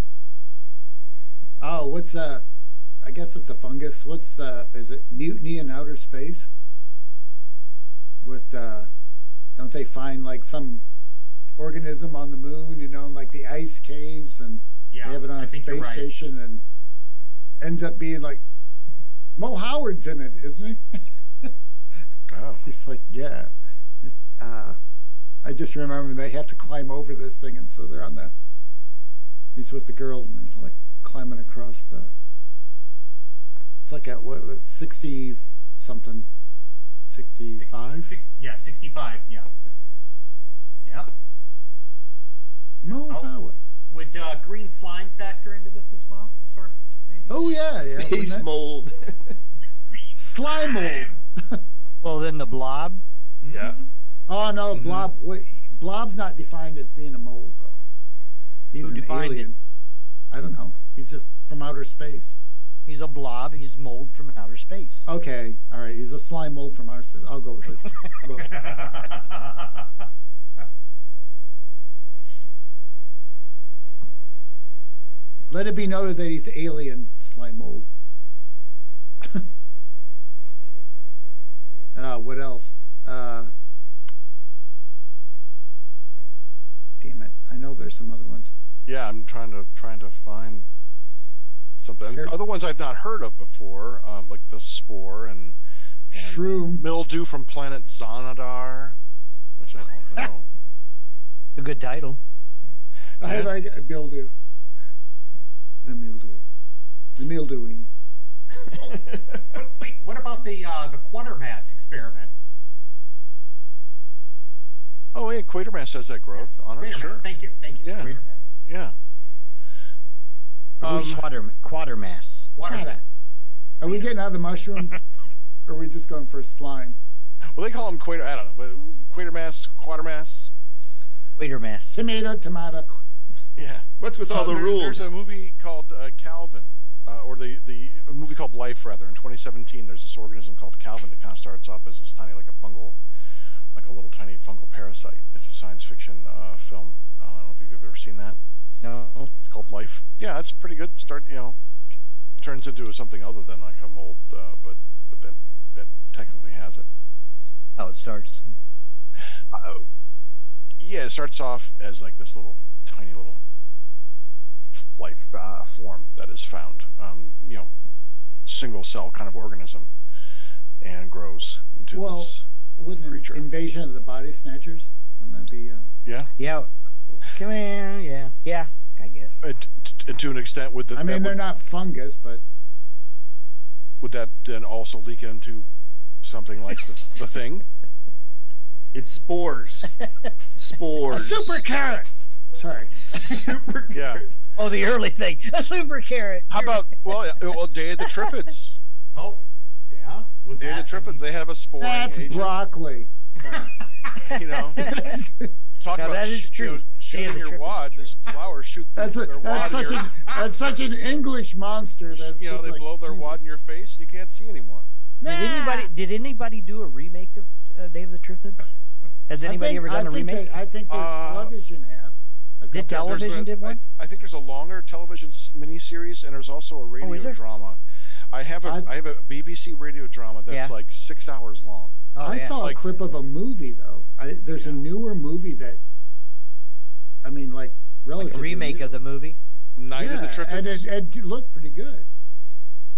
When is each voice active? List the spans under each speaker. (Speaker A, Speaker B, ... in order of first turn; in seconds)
Speaker A: 1.6-2.4, 3.0-6.5, 8.2-8.9, 9.6-10.8, 11.6-16.6, 17.6-18.4, 19.4-20.8, 22.6-23.5, 24.0-24.8, 25.4-28.3, 29.6-32.1, 33.8-36.3, 37.1-38.1, 42.8-43.6, 47.3-48.5, 50.2-51.6, 54.3-57.8, 58.7-59.6, 60.3-62.4, 65.1-68.6, 75.5-77.9, 81.9-83.5, 87.0-88.5, 96.1-96.8, 103.2-104.3, 105.8-106.4, 107.2-107.9, 120.8-121.2, 122.6-123.0, 123.8-125.0, 125.7-127.0, 131.9-132.9, 171.9-175.9, 180.9-182.4, 191.1-193.0, 201.8-203.7, 204.8-205.5, 209.0-213.4, 215.2-215.9, 219.4-223.4, 228.6-228.9, 232.2-235.8, 237.2-239.0, 239.9-242.1
Speaker B: 14.9-16.1, 37.6-39.5, 40.8-41.2, 43.0-43.3, 43.9-47.6, 49.9-51.2, 53.4-53.9, 68.4-70.0, 108.8-112.3, 116.4-118.5, 122.5-123.2, 199.1-201.2, 203.5-204.3, 209.5-210.4
Speaker C: 22.3-22.7, 54.7-55.1, 88.9-90.7, 91.8-95.5, 96.1-99.0, 99.6-100.5, 103.2-103.5, 115.1-117.2, 117.8-118.9, 127.5-130.5, 133.6-143.0, 143.7-148.4, 149.4-151.6, 152.4-156.8, 159.5-159.8, 160.8-163.4, 164.8-167.7, 168.4-169.9, 170.8-172.4, 173.0-173.4, 176.1-176.3, 179.4-181.4, 184.0-185.7, 186.2-187.6, 193.9-194.2, 196.5-198.8, 200.6-202.6, 204.3-205.0, 205.8-210.2, 212.1-214.8, 220.9-221.5, 222.9-227.8, 228.3-232.9, 234.5-234.8, 239.8-240.9
Speaker D: 47.5-49.4, 53.5-53.8, 108.9-109.4, 134.0-135.1, 188.9-189.9, 190.6-191.6, 192.9-194.3
Speaker E: 52.0-53.0, 58.8-59.5, 62.9-65.0, 101.5-102.2, 120.8-122.5, 131.3-132.0, 148.8-149.3, 157.8-158.4, 176.4-179.4, 190.0-190.3, 194.6-197.2, 198.0-198.3, 204.1-205.2, 205.9-208.1, 215.2-218.7, 219.3-220.5, 222.7-223.8, 227.0-227.4, 230.5-230.7, 232.1-232.7, 238.2-239.4